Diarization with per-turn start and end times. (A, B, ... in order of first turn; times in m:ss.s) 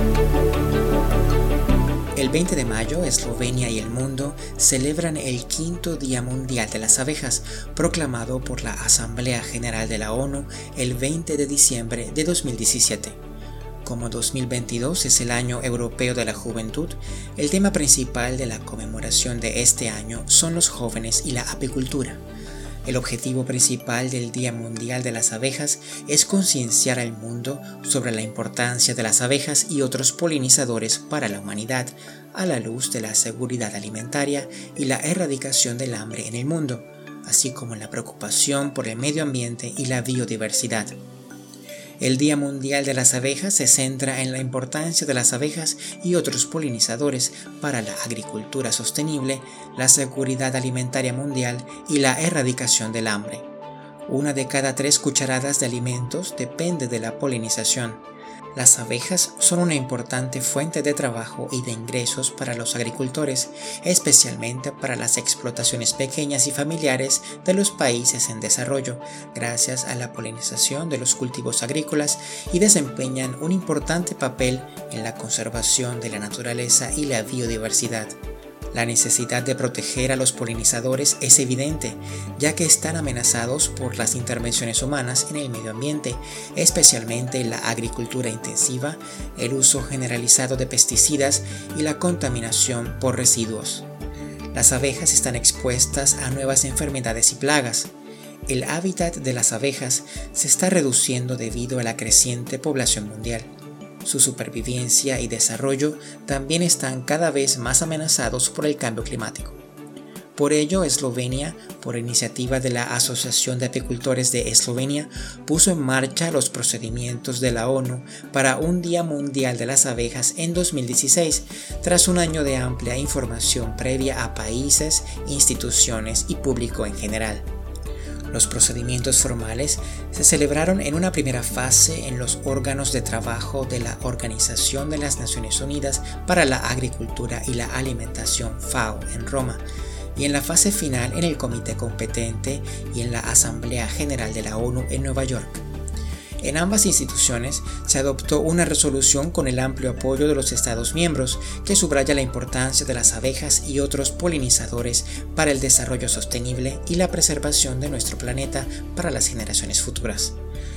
0:02.2-0:13.2 A
0:13.8-0:22.2 A
0:22.8-0:41.0 A
0:42.0-0:53.5 A
0:54.1-0:58.0 A
0:58.6-1:18.2 A
1:18.7-1:33.9 A
1:34.5-1:37.9 A
1:38.5-1:49.6 A
1:50.4-2:07.5 A
2:08.3-2:19.6 A
2:20.2-2:25.6 A
2:26.4-2:40.4 A